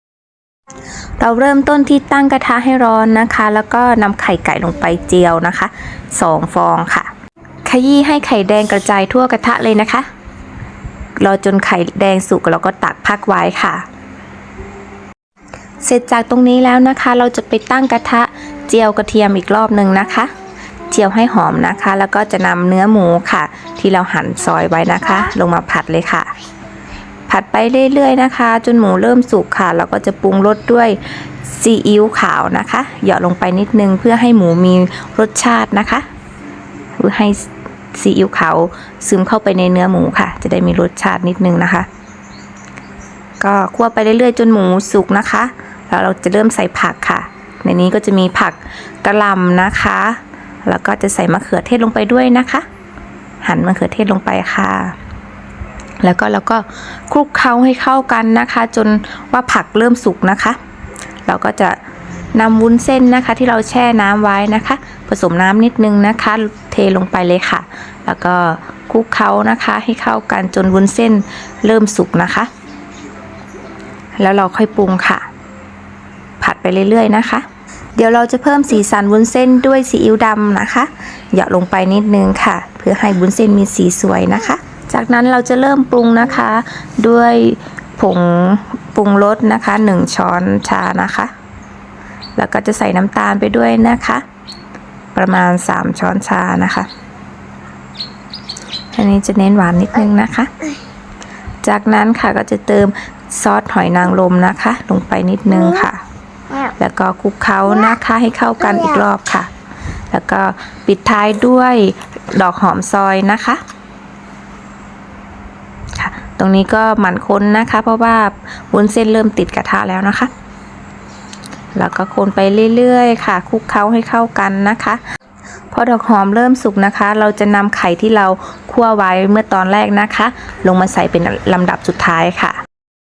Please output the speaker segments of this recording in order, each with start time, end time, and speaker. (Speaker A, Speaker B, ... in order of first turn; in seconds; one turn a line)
Speaker A: 1.2-7.1
Speaker A: 7.7-10.1
Speaker A: 11.2-13.8
Speaker A: 15.8-20.3
Speaker A: 20.9-26.3
Speaker A: 27.3-36.0
Speaker A: 37.0-41.9
Speaker A: 43.4-52.6
Speaker A: 53.4-55.0
Speaker A: 56.0-60.6
Speaker A: 61.3-61.8
Speaker A: 62.3-72.5
Speaker A: 74.2-75.2
Speaker A: 76.4-91.3
Speaker A: 92.4-94.2
Speaker A: 95.1-96.9
Speaker A: 98.9-100.5
Speaker A: 101.6-106.0
Speaker A: 106.7-109.5
Speaker A: 110.1-113.6
Speaker A: 116.0-120.3
Speaker A: 121.8-125.0
Speaker A: 125.7-132.6